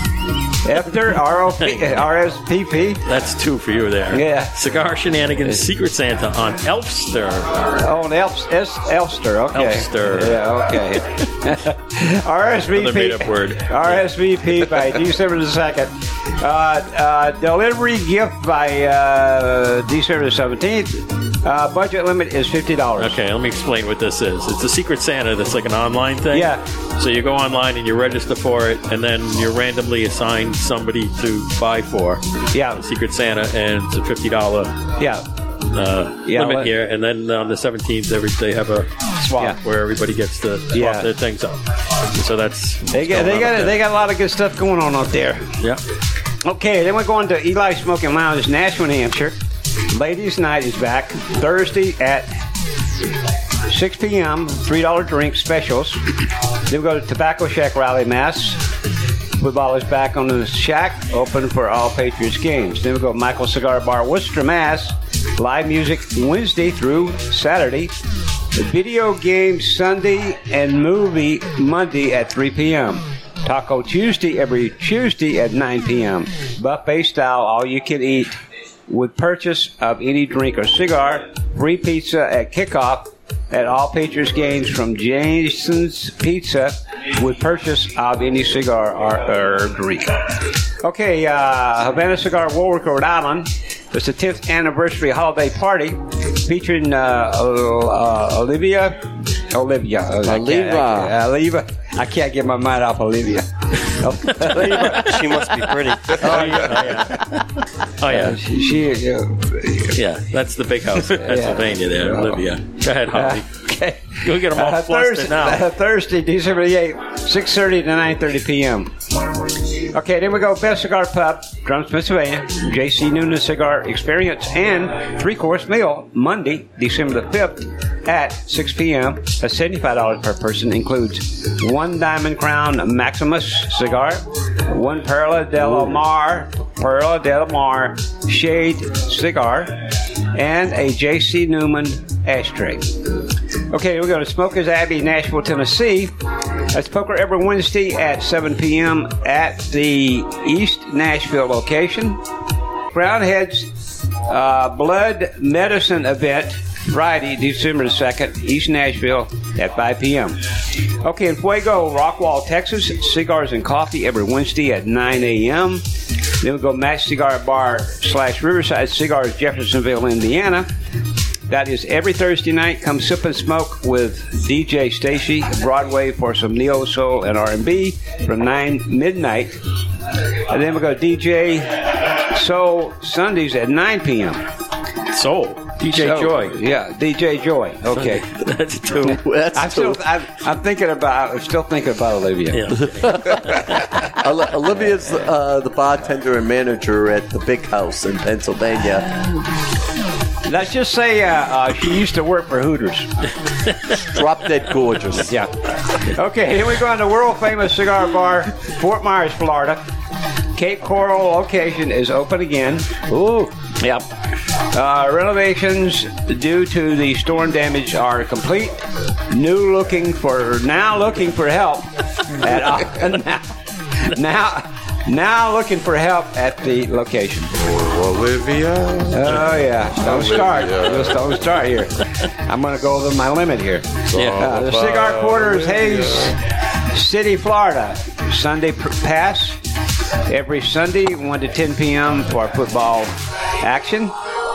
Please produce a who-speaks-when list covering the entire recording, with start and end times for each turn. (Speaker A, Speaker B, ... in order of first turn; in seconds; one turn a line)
Speaker A: 0.7-3.0
Speaker B: 3.1-7.7
Speaker A: 4.1-4.5
Speaker A: 7.8-23.2
Speaker B: 9.5-11.2
Speaker B: 12.7-15.0
Speaker B: 23.0-34.8
Speaker A: 26.3-26.6
Speaker A: 32.5-32.8
Speaker B: 35.7-43.8
Speaker A: 36.2-36.7
Speaker A: 39.3-39.6
Speaker A: 40.7-41.1
Speaker A: 42.9-45.5
Speaker A: 46.4-49.4
Speaker A: 49.9-52.3
Speaker A: 53.7-56.0
Speaker A: 56.7-58.6
Speaker A: 59.4-67.9
Speaker A: 68.5-78.3
Speaker A: 78.9-105.2
Speaker C: 100.2-101.2
Speaker B: 104.5-105.1
Speaker D: 104.5-106.6
Speaker B: 106.2-107.4
Speaker A: 106.3-107.1
Speaker B: 108.0-108.4
Speaker A: 108.1-110.0
Speaker B: 109.9-113.5
Speaker A: 111.0-112.4
Speaker A: 113.1-118.9
Speaker B: 114.2-115.7
Speaker A: 119.9-139.8
Speaker A: 140.3-142.9
Speaker A: 143.7-146.1
Speaker A: 146.7-152.2
Speaker A: 152.9-153.7
Speaker A: 154.3-160.4
Speaker A: 161.0-165.8
Speaker A: 166.4-170.7
Speaker A: 171.5-179.6
Speaker A: 180.5-184.4
Speaker B: 185.1-186.6
Speaker A: 185.9-188.3
Speaker B: 187.9-189.2
Speaker C: 188.9-190.0
Speaker A: 189.0-193.3
Speaker B: 192.5-194.0
Speaker C: 193.0-199.3
Speaker A: 200.4-203.1
Speaker C: 204.0-205.4
Speaker A: 205.2-209.8
Speaker A: 210.6-214.1
Speaker A: 214.7-223.5
Speaker A: 224.1-227.5
Speaker E: 227.6-231.7
Speaker A: 229.1-236.4
Speaker E: 234.1-236.3
Speaker B: 234.1-234.5
Speaker A: 236.9-239.6
Speaker A: 240.3-244.1